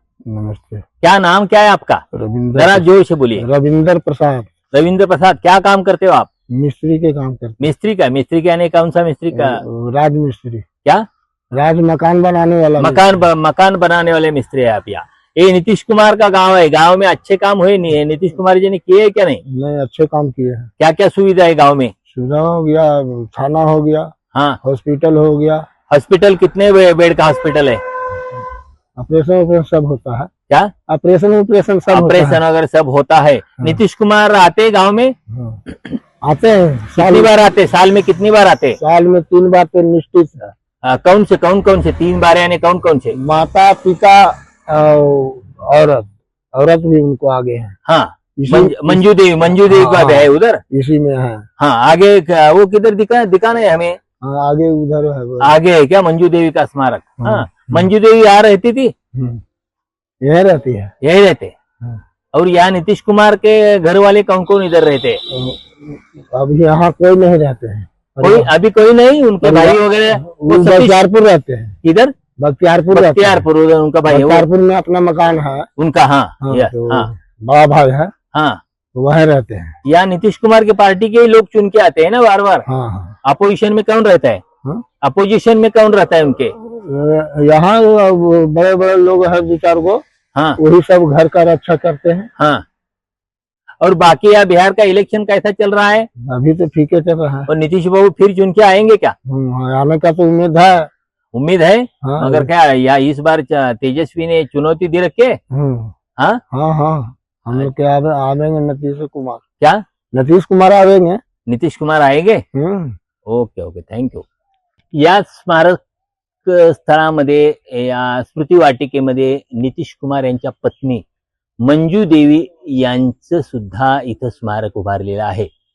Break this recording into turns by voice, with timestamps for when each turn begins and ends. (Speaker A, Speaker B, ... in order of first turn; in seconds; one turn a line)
Speaker A: 0.3-0.8
Speaker B: 1.0-3.5
Speaker A: 2.1-2.9
Speaker A: 3.4-4.5
Speaker B: 4.7-6.3
Speaker A: 6.5-7.7
Speaker B: 7.6-9.6
Speaker A: 9.3-10.7
Speaker A: 11.5-13.1
Speaker B: 12.8-19.4
Speaker A: 19.5-20.7
Speaker B: 20.8-21.9
Speaker A: 22.1-24.1
Speaker B: 24.3-24.6
Speaker A: 24.6-25.6
Speaker B: 25.9-27.8
Speaker A: 29.0-30.3
Speaker A: 30.9-32.4
Speaker B: 31.9-35.1
Speaker A: 35.3-35.6
Speaker B: 35.7-36.0
Speaker A: 36.2-37.3
Speaker B: 37.0-38.8
Speaker A: 38.8-40.5
Speaker B: 40.8-43.2
Speaker A: 43.1-47.7
Speaker B: 47.9-50.6
Speaker A: 48.4-51.5
Speaker B: 51.6-54.0
Speaker A: 54.2-55.5
Speaker B: 55.4-58.9
Speaker A: 57.2-57.9
Speaker A: 59.1-59.4
Speaker A: 60.2-60.9
Speaker B: 61.0-61.6
Speaker B: 62.3-65.2
Speaker A: 65.3-68.5
Speaker B: 68.2-71.0
Speaker A: 69.4-71.8
Speaker B: 71.8-72.1
Speaker A: 72.4-73.5
Speaker B: 72.9-74.5
Speaker A: 74.1-75.7
Speaker B: 75.8-77.1
Speaker A: 76.4-78.1
Speaker B: 78.3-78.6
Speaker A: 79.0-79.8
Speaker B: 79.8-82.7
Speaker A: 82.7-83.2
Speaker B: 83.2-84.4
Speaker B: 85.0-86.5
Speaker A: 86.6-90.0
Speaker B: 90.3-90.6
Speaker A: 90.6-92.3
Speaker B: 92.4-92.6
Speaker B: 93.8-96.1
Speaker A: 96.2-97.5
Speaker B: 97.5-99.2
Speaker A: 99.3-100.9
Speaker B: 101.3-105.4
Speaker A: 102.0-102.5
Speaker A: 105.5-105.9
Speaker A: 106.5-109.4
Speaker A: 110.1-111.2
Speaker B: 111.5-112.4
Speaker A: 112.5-113.0
Speaker B: 113.2-114.3
Speaker B: 114.9-115.8
Speaker B: 116.4-121.0
Speaker B: 121.6-125.5